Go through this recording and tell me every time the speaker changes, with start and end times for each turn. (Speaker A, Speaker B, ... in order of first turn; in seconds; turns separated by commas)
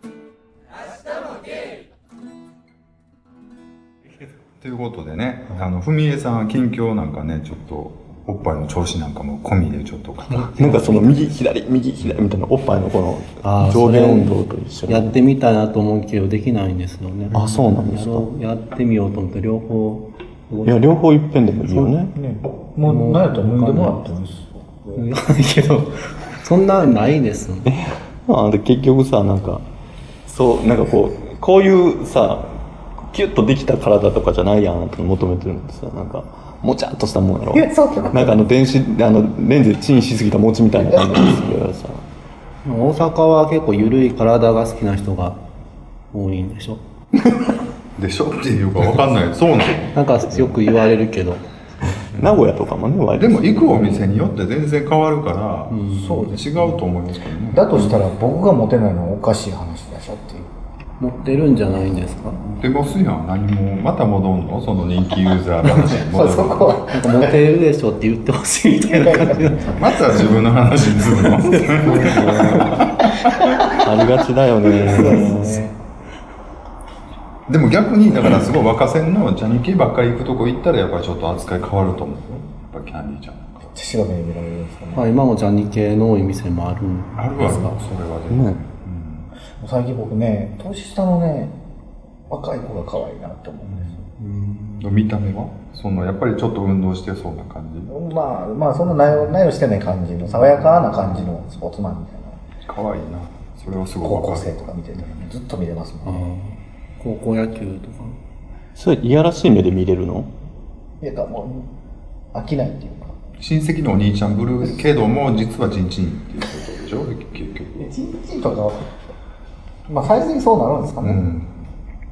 Speaker A: 4.6-11.3, Speaker B: 10.4-15.2, Speaker A: 12.0-12.3, Speaker C: 13.4-14.3, Speaker C: 14.9-20.9, Speaker B: 17.3-18.3, Speaker B: 20.6-22.1, Speaker D: 22.1-25.1, Speaker C: 22.9-24.1, Speaker C: 24.9-27.7, Speaker B: 27.7-29.6, Speaker B: 30.3-32.5, Speaker B: 33.1-42.0, Speaker D: 37.5-38.5, Speaker C: 42.6-45.4, Speaker C: 46.1-46.8, Speaker A: 48.0-50.6, Speaker C: 49.9-51.5, Speaker B: 52.1-54.0, Speaker A: 53.2-57.7, Speaker C: 55.7-56.4, Speaker D: 55.9-56.6, Speaker D: 57.5-60.5, Speaker C: 61.0-62.4, Speaker A: 62.5-66.8, Speaker D: 65.9-67.3, Speaker C: 66.9-69.8, Speaker D: 69.0-69.6, Speaker A: 69.6-73.6, Speaker B: 71.6-75.6, Speaker D: 74.8-75.8, Speaker A: 77.5-83.7, Speaker D: 83.7-85.1, Speaker C: 84.9-87.8, Speaker A: 87.2-89.3, Speaker B: 88.3-88.6, Speaker D: 89.6-91.6, Speaker D: 92.3-94.0, Speaker C: 94.2-94.9, Speaker A: 94.8-97.9, Speaker D: 97.9-102.4, Speaker A: 102.7-105.2, Speaker D: 104.0-106.2, Speaker C: 106.0-108.2, Speaker B: 108.8-110.3, Speaker D: 111.0-111.7, Speaker D: 112.3-113.2, Speaker A: 113.4-117.9, Speaker D: 117.8-118.9, Speaker D: 119.9-121.3, Speaker A: 121.0-121.5